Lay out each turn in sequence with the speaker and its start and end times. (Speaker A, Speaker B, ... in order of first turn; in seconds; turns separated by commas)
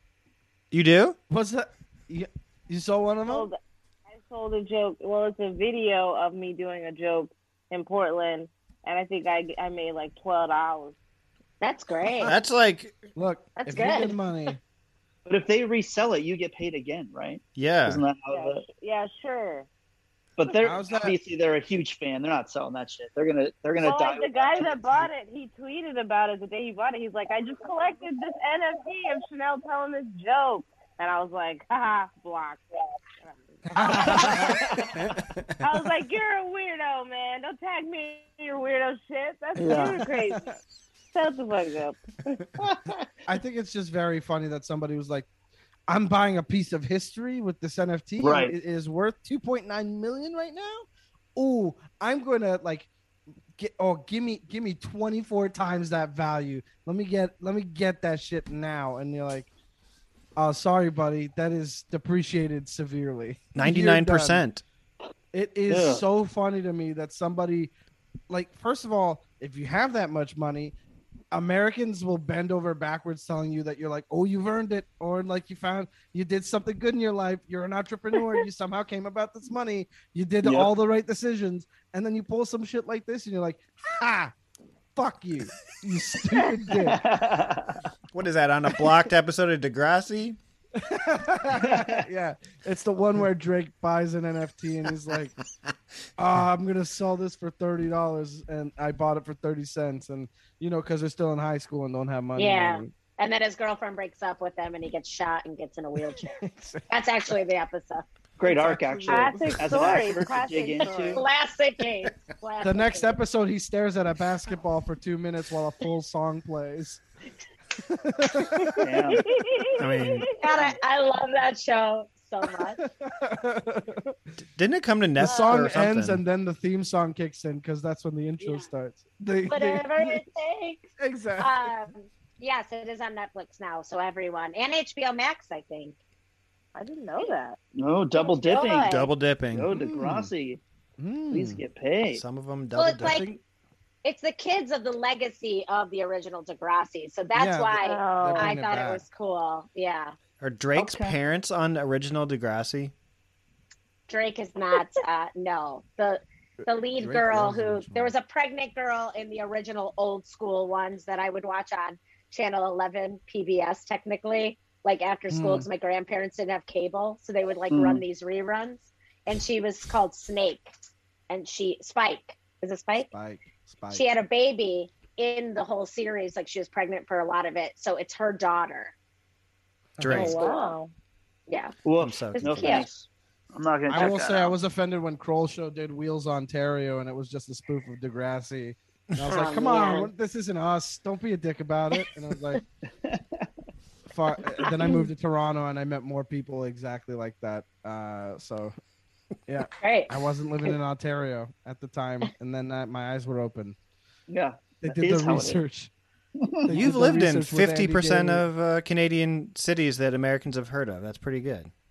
Speaker A: 0.7-1.2, Speaker B: 1.3-3.5, Speaker C: 3.3-3.6, Speaker C: 4.1-10.9, Speaker D: 11.6-12.3, Speaker A: 12.2-13.0, Speaker B: 13.2-14.6, Speaker D: 13.6-14.2, Speaker E: 15.2-18.6, Speaker A: 17.5-18.0, Speaker C: 18.2-19.7, Speaker E: 20.4-25.1, Speaker B: 20.5-21.1, Speaker C: 23.8-34.8, Speaker B: 33.7-35.1, Speaker E: 33.8-34.8, Speaker C: 35.6-40.5, Speaker E: 39.6-40.0, Speaker B: 40.3-40.5, Speaker C: 41.1-42.4, Speaker E: 42.6-43.0, Speaker B: 43.3-45.2, Speaker B: 45.9-52.9, Speaker E: 48.2-48.5, Speaker B: 53.6-59.5, Speaker B: 60.4-64.4, Speaker A: 63.5-64.6, Speaker B: 65.3-67.7, Speaker E: 65.7-66.0, Speaker B: 68.3-70.7, Speaker B: 71.3-84.3, Speaker E: 80.4-80.7, Speaker B: 84.9-87.0, Speaker E: 86.8-87.7, Speaker A: 88.1-90.4, Speaker B: 90.8-95.3, Speaker E: 91.6-92.0, Speaker B: 96.2-102.9, Speaker D: 102.4-106.4, Speaker B: 106.0-106.9, Speaker D: 106.9-108.0, Speaker E: 108.4-111.2, Speaker B: 108.4-110.2, Speaker C: 109.1-111.2, Speaker B: 110.8-111.2, Speaker D: 111.1-113.2, Speaker B: 112.6-117.0, Speaker B: 117.8-118.8, Speaker E: 118.8-119.2, Speaker C: 119.1-120.2, Speaker A: 119.8-120.3, Speaker D: 120.4-122.8, Speaker B: 122.8-124.1, Speaker A: 124.5-126.2, Speaker B: 125.2-130.2, Speaker D: 128.4-128.7, Speaker D: 129.5-135.9, Speaker B: 131.0-131.7, Speaker C: 136.7-137.6, Speaker E: 137.8-140.6, Speaker D: 138.4-139.1, Speaker A: 138.8-139.7, Speaker B: 139.7-140.3, Speaker B: 141.0-141.6, Speaker E: 141.3-142.2, Speaker A: 142.1-143.3, Speaker D: 142.7-143.3, Speaker B: 143.0-143.4, Speaker D: 144.0-150.1, Speaker B: 147.3-149.0, Speaker C: 147.8-148.6, Speaker A: 150.4-152.9, Speaker E: 150.7-151.2, Speaker D: 154.1-170.7, Speaker B: 156.6-158.1, Speaker B: 165.3-165.7, Speaker E: 167.7-168.0, Speaker D: 171.3-173.1, Speaker B: 173.1-174.0, Speaker D: 173.9-178.9, Speaker B: 180.0-180.3, Speaker A: 180.0-180.3, Speaker C: 180.1-180.9, Speaker D: 180.1-180.7, Speaker D: 181.5-181.7, Speaker E: 181.8-184.5, Speaker A: 182.0-182.8, Speaker D: 182.3-182.8, Speaker B: 183.9-192.6, Speaker D: 189.3-190.1, Speaker E: 193.0-193.4, Speaker B: 194.1-198.8, Speaker B: 199.5-203.8, Speaker D: 199.8-200.1, Speaker E: 204.3-205.6, Speaker B: 204.8-205.9, Speaker E: 206.4-206.7, Speaker B: 206.7-208.4, Speaker A: 206.7-211.7